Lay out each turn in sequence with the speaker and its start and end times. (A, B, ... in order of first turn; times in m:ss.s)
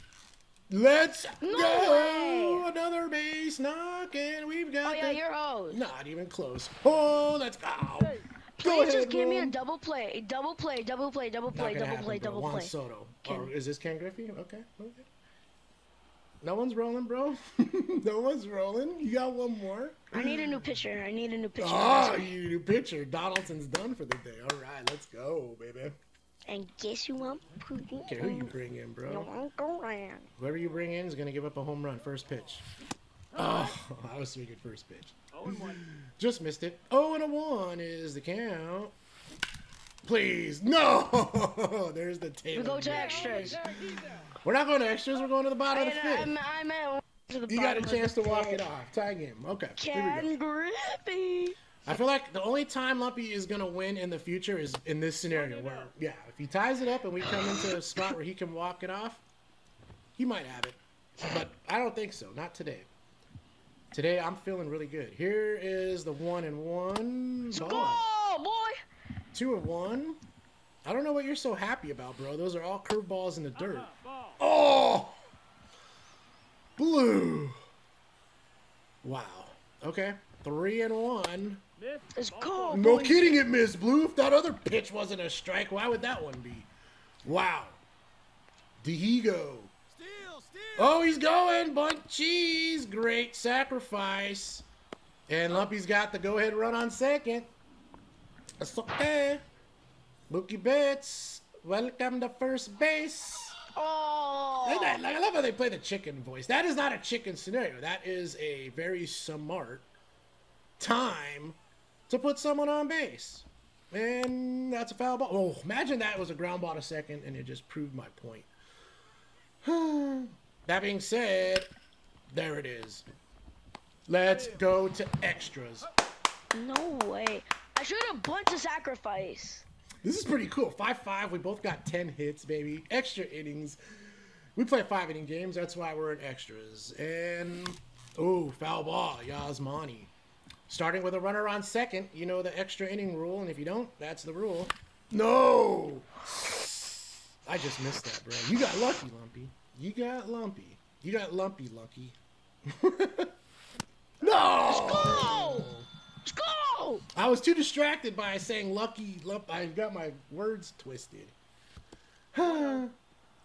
0:00.7-0:09.6 A
0:01.4-0:02.7 B
0:04.8-0:05.8 B
0:08.0-0:08.2 C
0:08.6-0:12.7 B
0:11.5-0:15.1 A
0:13.2-0:13.5 B
0:16.4-0:20.7 A
0:20.1-0:22.3 B
0:21.6-0:26.0 A
0:26.5-0:28.6 B
0:28.0-0:29.3 A
0:29.1-0:30.3 B
0:30.4-0:32.7 A
0:33.4-0:33.8 C
0:33.4-0:38.9 A
0:35.3-0:35.8 C
0:40.0-0:43.7 A
0:42.5-0:43.6 B
0:42.9-0:44.4 C
0:44.3-0:46.4 A
0:45.7-0:48.6 B
0:47.5-0:50.3 A
0:49.8-0:51.6 B
0:51.8-0:59.2 A
0:55.3-0:55.9 C
1:00.2-1:02.9 A
1:03.9-1:08.0 A
1:07.5-1:08.8 B
1:09.3-1:10.2 A
1:10.8-1:15.2 A
1:13.6-1:14.4 C
1:16.8-1:17.6 A
1:19.0-1:21.6 A
1:21.8-1:23.0 C
1:22.1-1:23.4 B
1:22.7-1:26.7 A
1:27.2-1:27.8 A
1:28.8-1:29.7 A
1:30.3-1:30.5 C
1:30.8-1:34.7 A
1:35.3-1:37.5 A
1:38.6-1:39.4 A
1:40.3-1:43.6 A
1:43.7-1:45.0 B
1:44.6-1:49.9 A
1:50.8-1:51.6 A
1:52.1-1:58.5 A
1:59.6-2:01.7 A
2:02.3-2:03.0 A
2:04.1-2:05.9 A
2:04.3-2:04.7 C
2:06.5-2:09.7 B
2:10.0-2:13.8 A
2:14.6-2:20.1 A
2:20.7-2:33.3 A
2:34.2-2:35.9 A
2:34.6-2:35.7 B
2:36.2-2:37.0 B
2:37.1-2:41.4 A
2:42.3-2:42.9 A
2:42.4-2:42.8 C